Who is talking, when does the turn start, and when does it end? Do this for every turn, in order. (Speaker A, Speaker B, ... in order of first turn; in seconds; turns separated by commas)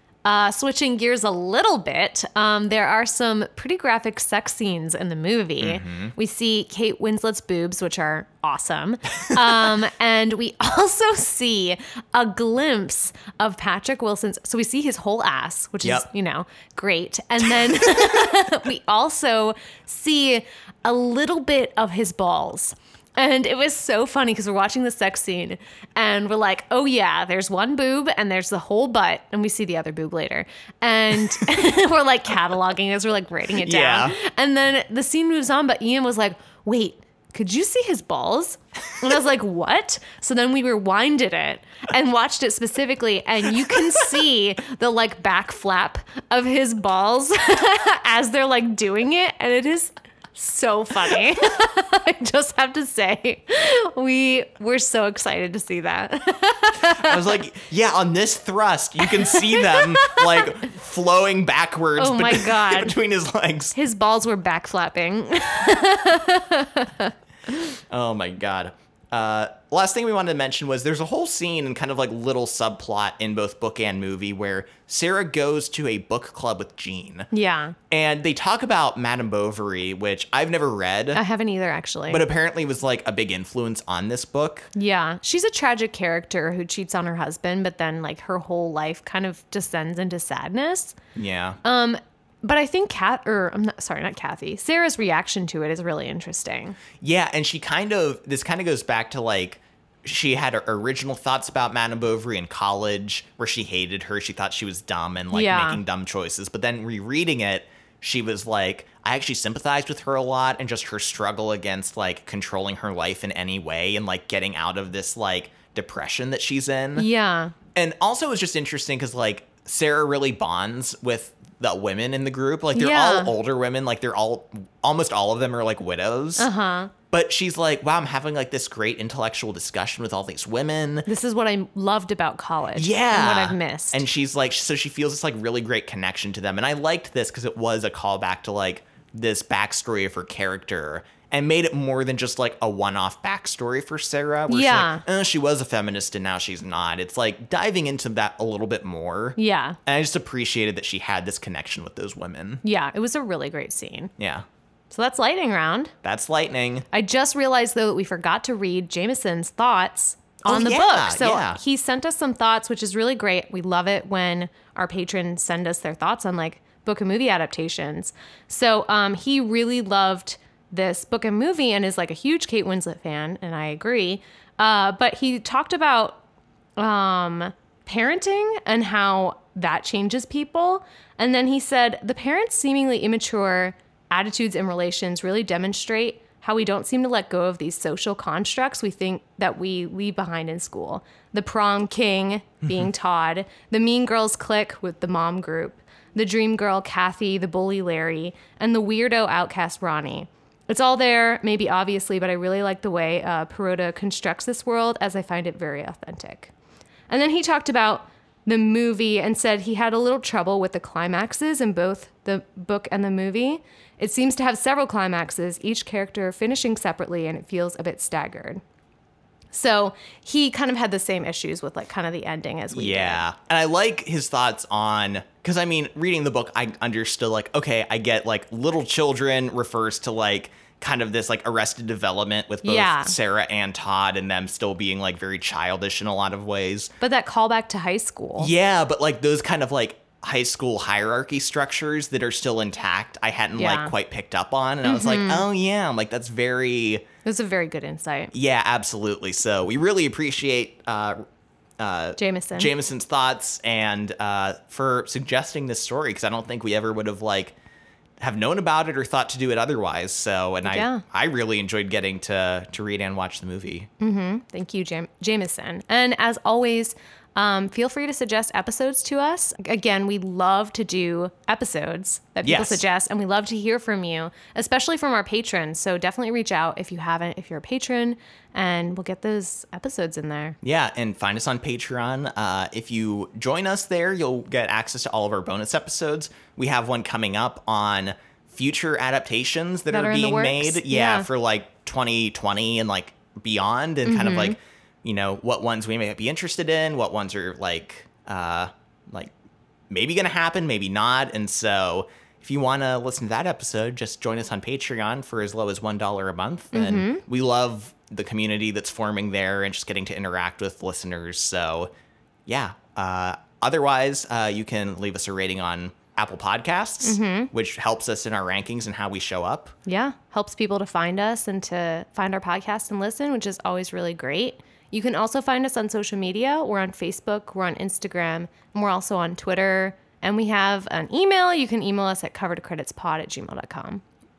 Speaker A: 0.2-57.4, Speaker B: 5.6-6.1, Speaker B: 33.6-34.2, Speaker B: 56.8-63.7, Speaker A: 59.0-60.5, Speaker A: 62.0-63.0, Speaker A: 63.7-67.5, Speaker B: 67.9-77.3, Speaker A: 77.3-77.8, Speaker B: 77.9-81.2, Speaker A: 81.1-82.2, Speaker B: 82.1-84.7, Speaker A: 84.7-91.0, Speaker B: 91.2-91.6, Speaker A: 91.6-96.8, Speaker B: 97.0-117.1, Speaker A: 105.3-105.8, Speaker A: 117.0-117.5, Speaker B: 117.7-126.5, Speaker A: 122.7-123.3, Speaker A: 126.4-126.9, Speaker B: 127.1-131.1, Speaker A: 131.1-134.0, Speaker B: 132.8-152.6, Speaker A: 144.5-145.0, Speaker A: 149.4-149.8, Speaker A: 152.6-154.1, Speaker B: 154.2-154.4, Speaker A: 154.9-155.9, Speaker B: 156.0-156.8, Speaker A: 156.9-176.2, Speaker B: 160.4-161.6, Speaker A: 176.8-206.5, Speaker A: 207.1-218.6, Speaker A: 219.5-223.2, Speaker B: 222.7-236.9, Speaker A: 232.6-233.1, Speaker A: 237.0-238.5, Speaker B: 238.4-247.0, Speaker A: 243.6-243.9, Speaker A: 244.8-245.4, Speaker A: 247.2-248.3, Speaker B: 248.3-251.2, Speaker B: 251.8-257.6, Speaker A: 252.2-252.7, Speaker B: 258.2-263.9, Speaker A: 260.6-261.0, Speaker A: 264.0-280.6, Speaker B: 272.4-272.8, Speaker B: 280.6-299.3, Speaker A: 289.9-291.3, Speaker A: 294.0-294.6, Speaker B: 299.9-311.9, Speaker A: 306.7-307.2, Speaker B: 312.5-319.7, Speaker A: 317.0-317.5, Speaker A: 319.9-334.0